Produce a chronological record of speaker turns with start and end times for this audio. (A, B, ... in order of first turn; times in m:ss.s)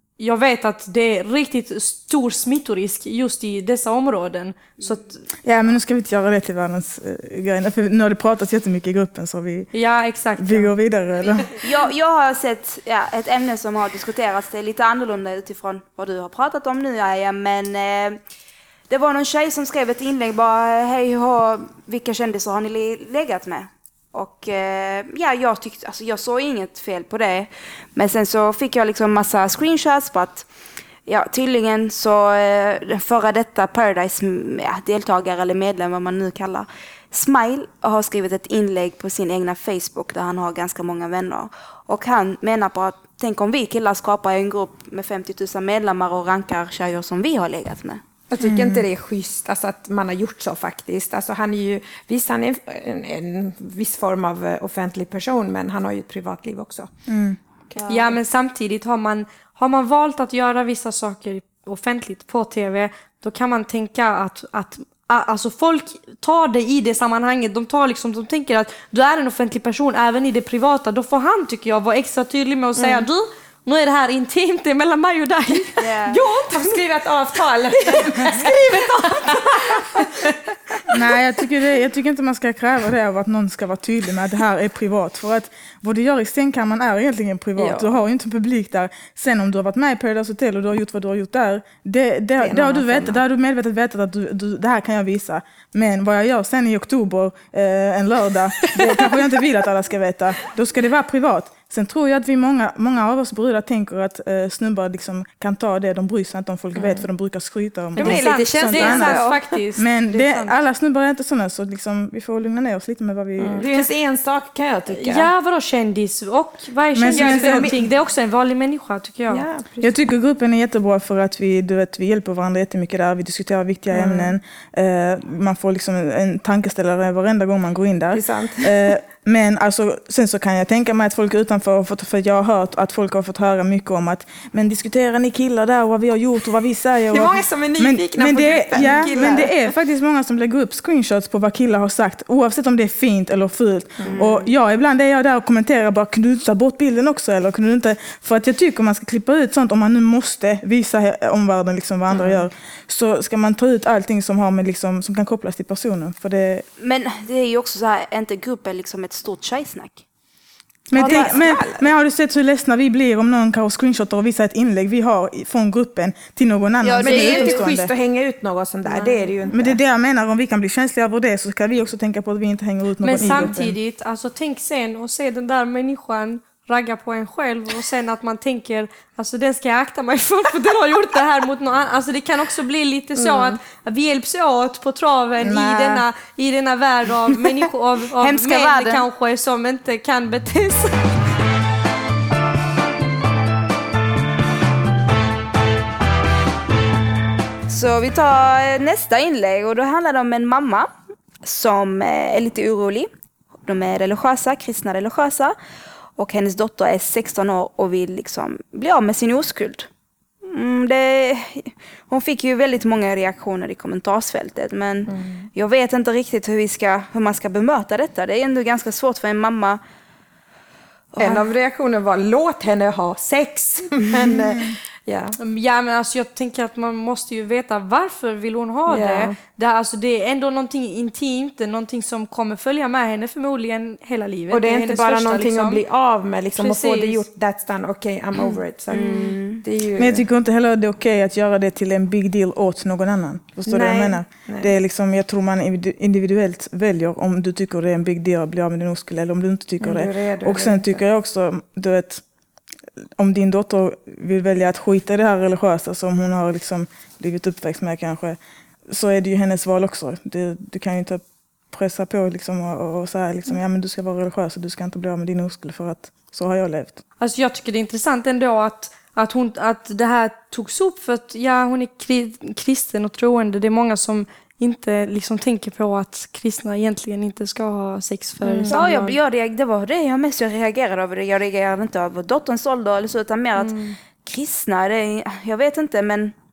0:00.2-0:05.2 A
0:05.4-0:09.7 B
0:09.7-0:10.7 A
0:10.4-0:11.5 B
0:11.6-0:18.2 C
0:18.9-0:30.4 C
0:31.1-0:48.0 C
0:48.3-0:56.9 D
0:48.4-0:48.9 B
0:57.1-0:57.4 B
0:57.7-0:58.2 D
0:57.9-1:15.8 A
1:12.8-1:13.1 D
1:15.8-1:16.2 C
1:16.0-1:20.4 D
1:18.3-1:19.3 A
1:20.9-1:53.7 B
1:27.6-1:27.9 D
1:32.4-1:33.2 D
1:38.7-1:39.1 D
1:46.8-1:47.1 D
1:48.0-1:49.4 D
1:48.0-1:50.6 A
1:53.4-1:55.3 D
1:54.9-1:59.4 A
1:56.9-1:57.8 B
1:57.1-1:57.9 D
1:59.3-1:59.9 D
1:59.8-2:36.6 B
2:03.9-2:04.3 D
2:08.1-2:08.9 D
2:17.1-2:19.6 D
2:24.0-2:24.3 D
2:32.1-2:32.4 D
2:36.8-2:40.0 C
2:40.9-2:47.9 B
2:40.9-2:41.4 C
2:41.0-2:41.9 D
2:46.8-2:47.5 C
2:47.0-2:49.8 D
2:47.1-2:47.5 A
2:48.9-2:49.3 A
2:49.5-2:53.8 B
2:53.0-3:11.0 A
2:53.1-2:53.6 D
3:03.2-3:03.6 D
3:05.4-3:06.1 B
3:08.2-3:09.0 C
3:17.7-3:20.9 C
3:21.4-3:23.1 C
3:23.7-3:25.6 C
3:26.2-3:29.9 C
3:30.4-3:39.8 C
3:35.1-3:35.4 D
3:41.1-3:41.4 C
3:41.2-3:45.4 D
3:44.2-3:44.8 B
3:45.4-3:55.8 A
3:48.9-3:49.4 D
3:54.5-4:00.2 D
3:56.6-3:57.2 A
3:58.9-3:59.6 C
4:00.0-4:12.2 B
4:03.7-4:04.7 D
4:09.8-4:11.0 D
4:13.2-4:18.4 B
4:18.9-4:27.0 B
4:27.2-4:39.2 A
4:38.4-4:38.8 D
4:38.7-4:46.3 C
4:43.6-4:43.9 A